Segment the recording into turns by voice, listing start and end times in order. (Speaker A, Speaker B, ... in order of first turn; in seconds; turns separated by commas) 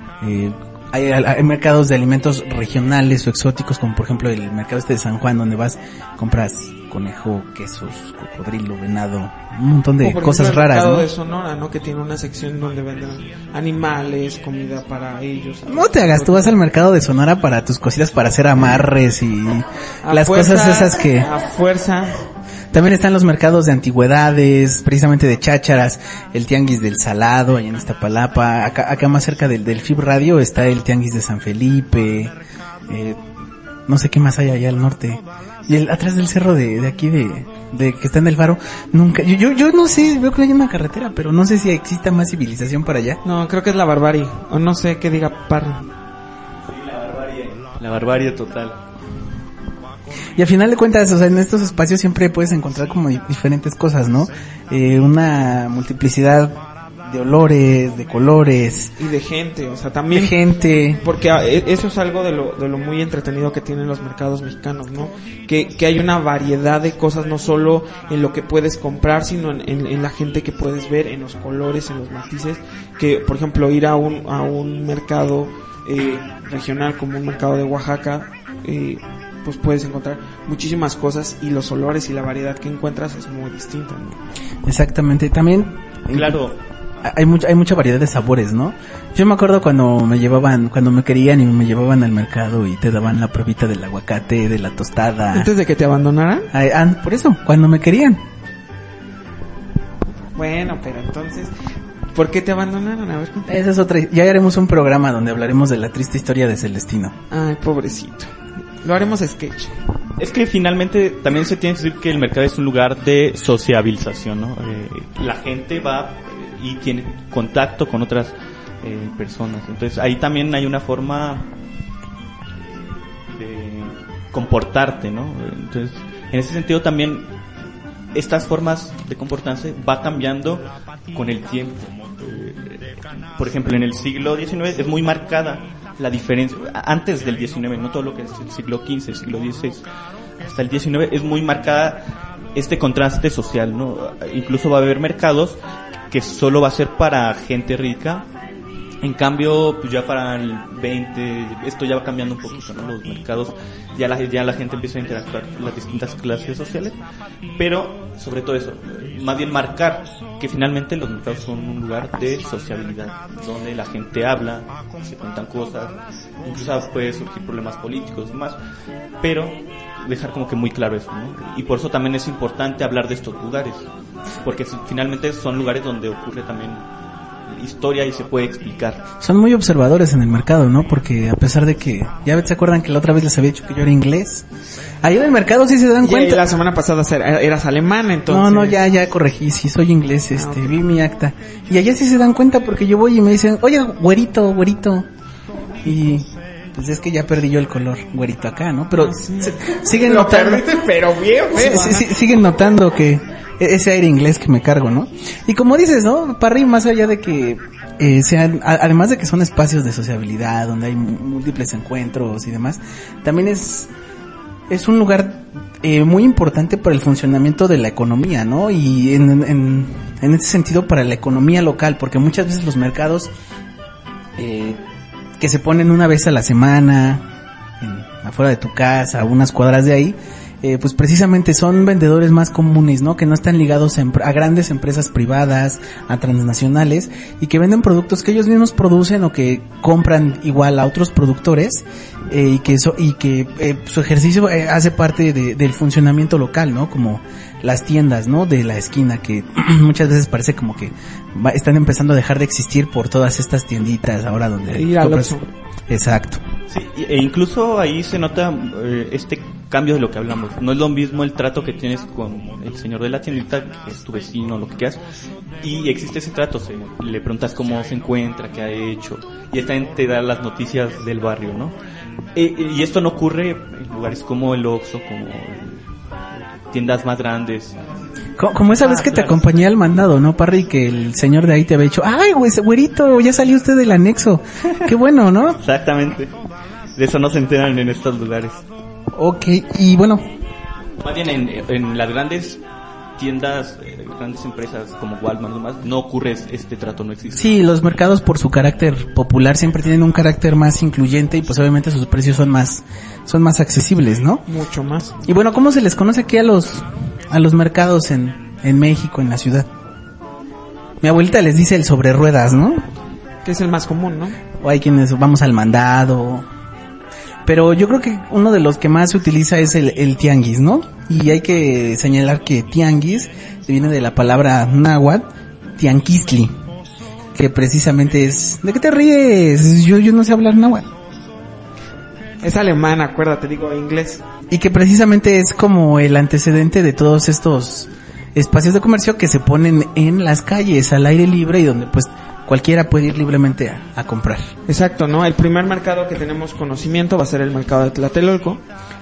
Speaker A: 0.2-11.1, Speaker B: 10.0-16.6, Speaker A: 15.7-21.3, Speaker B: 20.0-22.2, Speaker A: 22.7-32.3, Speaker A: 32.9-33.2, Speaker A: 33.9-43.2, Speaker B: 43.2-45.9, Speaker C: 46.7-48.8, Speaker A: 50.4-58.9, Speaker B: 59.0-60.4, Speaker A: 60.1-61.0, Speaker B: 61.0-84.2, Speaker A: 84.6-86.4, Speaker C: 86.1-86.6, Speaker A: 87.0-95.5, Speaker B: 95.3-96.5, Speaker A: 96.5-98.2, Speaker B: 100.3-101.5, Speaker B: 102.1-103.6, Speaker A: 103.5-107.1, Speaker B: 107.3-109.7, Speaker C: 110.2-121.4, Speaker C: 122.6-127.3, Speaker C: 128.1-139.8, Speaker C: 140.4-145.6, Speaker C: 146.1-148.2, Speaker C: 149.0-157.0, Speaker C: 157.5-168.6, Speaker C: 169.2-173.9, Speaker C: 174.4-176.8, Speaker C: 177.5-179.0, Speaker A: 179.2-184.4, Speaker A: 185.0-186.4, Speaker B: 186.0-188.8, Speaker A: 188.3-195.1, Speaker B: 190.3-190.8, Speaker A: 195.8-200.9, Speaker B: 198.9-202.0, Speaker A: 201.5-213.9, Speaker A: 214.7-223.3, Speaker A: 224.3-224.8, Speaker A: 225.4-227.3, Speaker A: 227.8-255.4, Speaker B: 254.7-255.5, Speaker A: 255.9-256.4, Speaker C: 256.7-265.0, Speaker C: 265.6-271.8, Speaker C: 272.3-275.8, Speaker C: 276.3-277.8, Speaker A: 278.4-285.6, Speaker C: 278.7-279.4, Speaker C: 285.6-286.3, Speaker C: 286.9-288.6, Speaker A: 289.1-290.2, Speaker C: 291.0-292.6, Speaker C: 293.2-297.5, Speaker A: 297.3-304.4, Speaker B: 304.5-305.1, Speaker A: 305.2-309.7, Speaker A: 311.0-312.9, Speaker B: 313.4-314.4, Speaker A: 314.6-316.5, Speaker A: 317.4-326.6, Speaker A: 327.3-330.9, Speaker B: 332.4-334.2, Speaker A: 334.5-344.5, Speaker B: 344.7-348.6